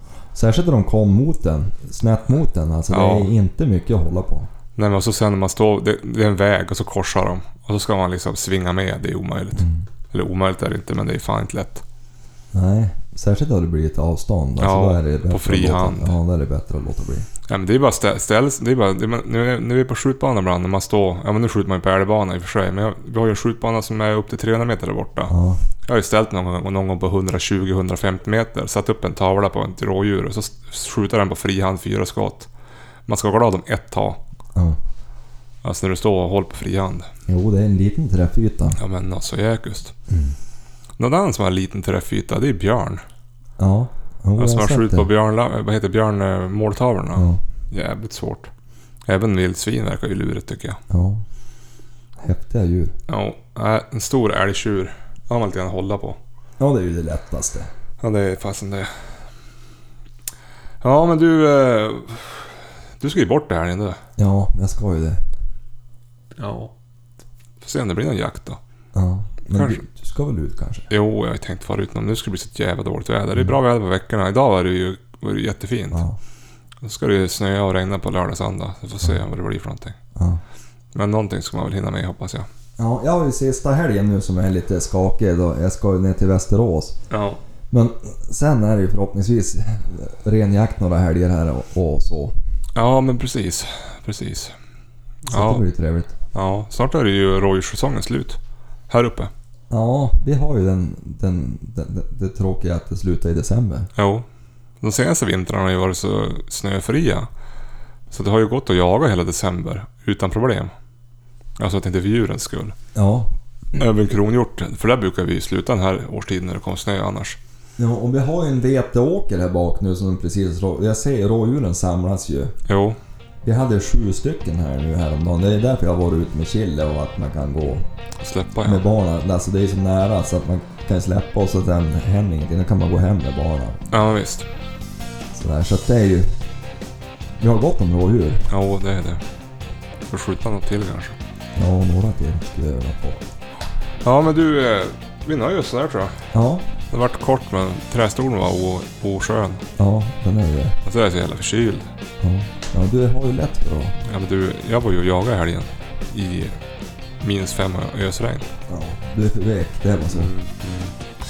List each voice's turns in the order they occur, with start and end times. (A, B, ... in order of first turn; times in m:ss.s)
0:00.4-0:04.5 A
0:02.9-0:03.3 B
0:04.8-0:11.8 B
0:09.6-0:09.9 A
0:12.5-0:17.3 A
0:14.6-0:16.2 B
0:17.5-0:25.3 B
0:25.3-0:25.6 A
0:25.9-0:32.5 B
0:33.1-0:34.2 B
0:35.6-0:37.1 B
0:37.3-0:38.8 A
0:38.8-0:40.0 B
0:40.1-0:40.4 A
0:41.0-0:43.0 B
0:43.6-0:45.1 A
0:44.4-0:48.5 B
0:47.2-0:47.4 A
0:49.1-0:50.8 B
0:50.9-0:51.2 A
0:52.2-0:52.9 A
0:53.1-0:56.2 B
0:56.6-0:57.7 A
0:58.0-0:58.9 B
1:00.8-1:02.5 B
1:03.0-1:04.0 B
1:04.2-1:05.2 A
1:06.4-1:06.7 B
1:07.6-1:08.6 B
1:08.9-1:10.9 A
1:09.5-1:09.8 B
1:10.9-1:16.0 B
1:15.9-1:16.2 A
1:16.8-1:20.0 B
1:20.2-1:20.4 A
1:21.0-1:22.5 B
1:22.8-1:27.0 A
1:27.1-1:27.4 B
1:27.7-1:32.3 A
1:32.8-1:34.6 B
1:35.3-1:35.6 B
1:35.3-1:36.1 A
1:36.3-1:38.4 B
1:38.9-1:39.3 B
1:39.7-1:43.9 A
1:44.0-1:44.2 B
1:44.8-1:47.3 B
1:48.1-1:50.7 B
1:51.6-1:52.8 B
1:53.0-1:53.3 A
1:53.7-1:57.4 B
1:57.8-2:02.6 A
2:02.7-2:03.0 B
2:03.4-2:07.9 A
2:08.2-2:08.8 B
2:08.6-2:13.8 A
2:13.9-2:14.5 B
2:15.3-2:16.3 A
2:17.4-2:18.5 A
2:18.5-2:19.2 B
2:20.1-2:21.2 B
2:21.6-2:23.2 A
2:24.0-2:26.2 B
2:26.3-2:26.7 A
2:26.9-2:29.6 B
2:29.8-2:30.8 A
2:30.8-2:31.9 B
2:32.2-2:34.0 A
2:34.0-2:36.6 B
2:37.2-2:38.5 B
2:38.7-2:40.3 A
2:40.1-2:40.9 B